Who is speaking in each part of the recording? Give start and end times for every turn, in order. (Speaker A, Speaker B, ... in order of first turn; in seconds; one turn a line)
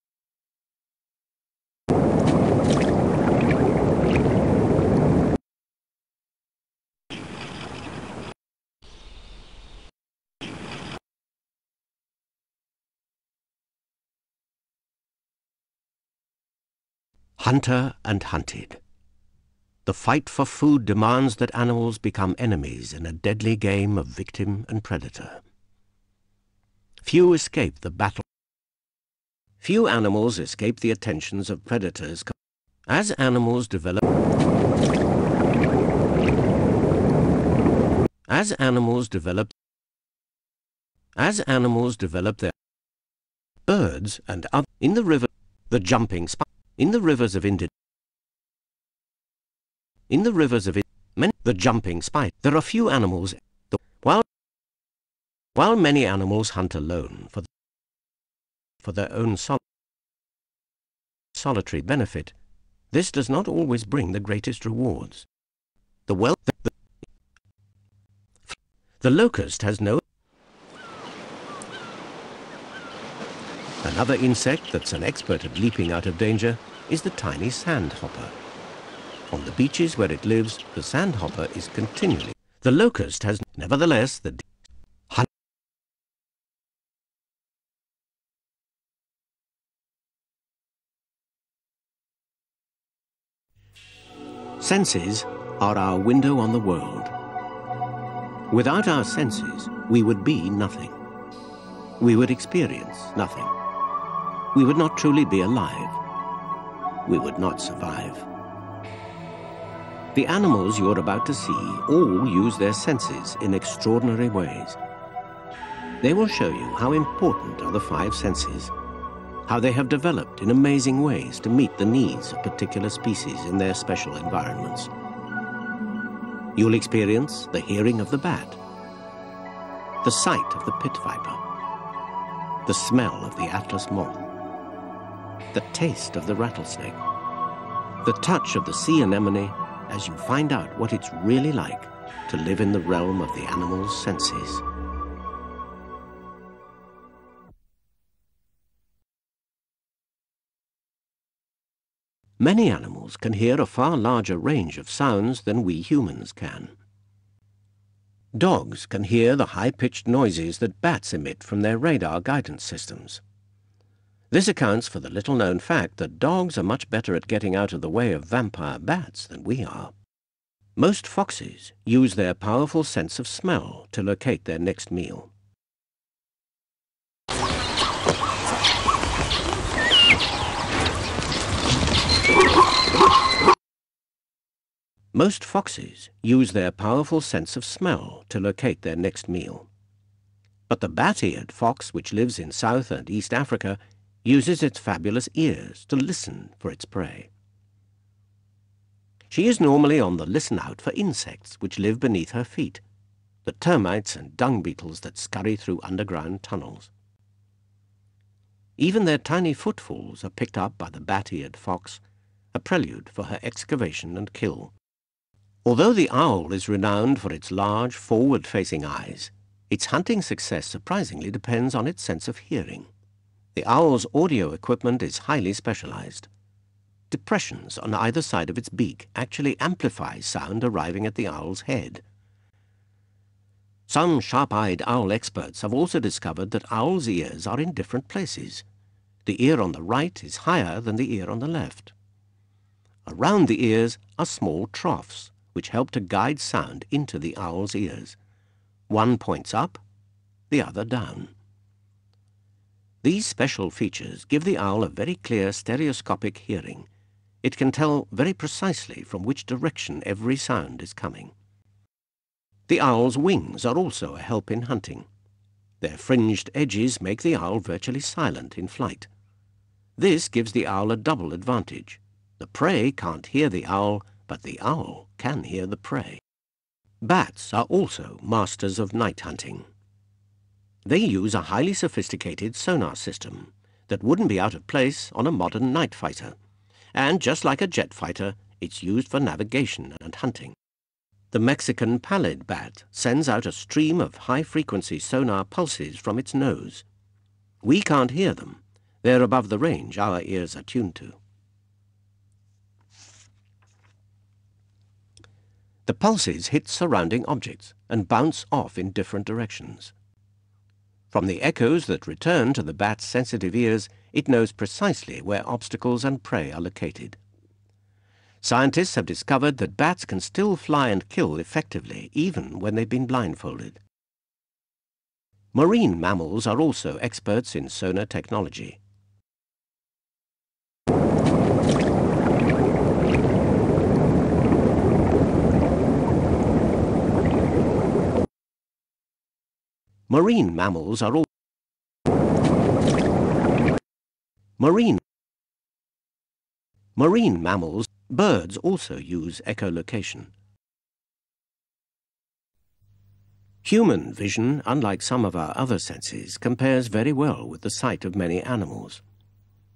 Speaker A: 17.4-18.8
Speaker A: 19.9-25.4
Speaker A: 27.0-28.2
Speaker A: 29.6-32.3
Speaker A: 32.9-34.0
Speaker A: 38.3-39.5
Speaker A: 41.1-42.5
Speaker A: 43.7-47.7
Speaker A: 50.1-54.3
Speaker A: 55.5-57.5
Speaker A: 58.8-59.6
Speaker A: 61.3-62.4
Speaker A: 62.9-65.3
Speaker A: 66.1-66.7
Speaker A: 68.5-70.0
Speaker A: 73.8-78.4
Speaker A: 79.3-84.4
Speaker A: 94.6-97.1
Speaker A: 98.5-101.0
Speaker A: 102.0-103.5
Speaker A: 104.5-106.0
Speaker A: 107.0-108.3
Speaker A: 110.1-114.8
Speaker A: 116.0-118.7
Speaker A: 119.5-124.9
Speaker A: 126.5-128.6
Speaker A: 130.0-131.4
Speaker A: 132.7-134.2
Speaker A: 135.5-137.0
Speaker A: 138.0-144.6
Speaker A: 152.4-156.7
Speaker A: 158.3-163.2
Speaker A: 164.3-169.9
Speaker A: 170.8-175.3
Speaker A: 185.1-189.7
Speaker A: 190.7-197.3
Speaker A: 199.3-202.8
Speaker A: 203.4-206.9
Speaker A: 208.8-212.0
Speaker A: 212.5-214.7
Speaker A: 215.6-222.9
Speaker A: 223.5-226.3
Speaker A: 227.1-232.0
Speaker A: 233.9-238.7
Speaker A: 239.2-241.9
Speaker A: 243.1-248.2
Speaker A: 248.9-249.8
Speaker A: 250.5-251.3
Speaker A: 253.0-256.9
Speaker A: 257.4-261.3
Speaker A: 262.7-265.1
Speaker A: 265.8-269.1
Speaker A: 270.0-276.2
Speaker A: 277.0-279.6
Speaker A: 280.8-286.4
Speaker A: 286.9-290.6
Speaker A: 291.3-296.8
Speaker A: 297.6-301.2
Speaker A: 305.9-309.9
Speaker A: 311.1-317.2
Speaker A: 318.4-323.8
Speaker A: 325.5-328.8
Speaker A: 340.1-341.3
Speaker A: 344.6-345.0
Speaker A: 346.9-350.3
Speaker A: 353.6-359.0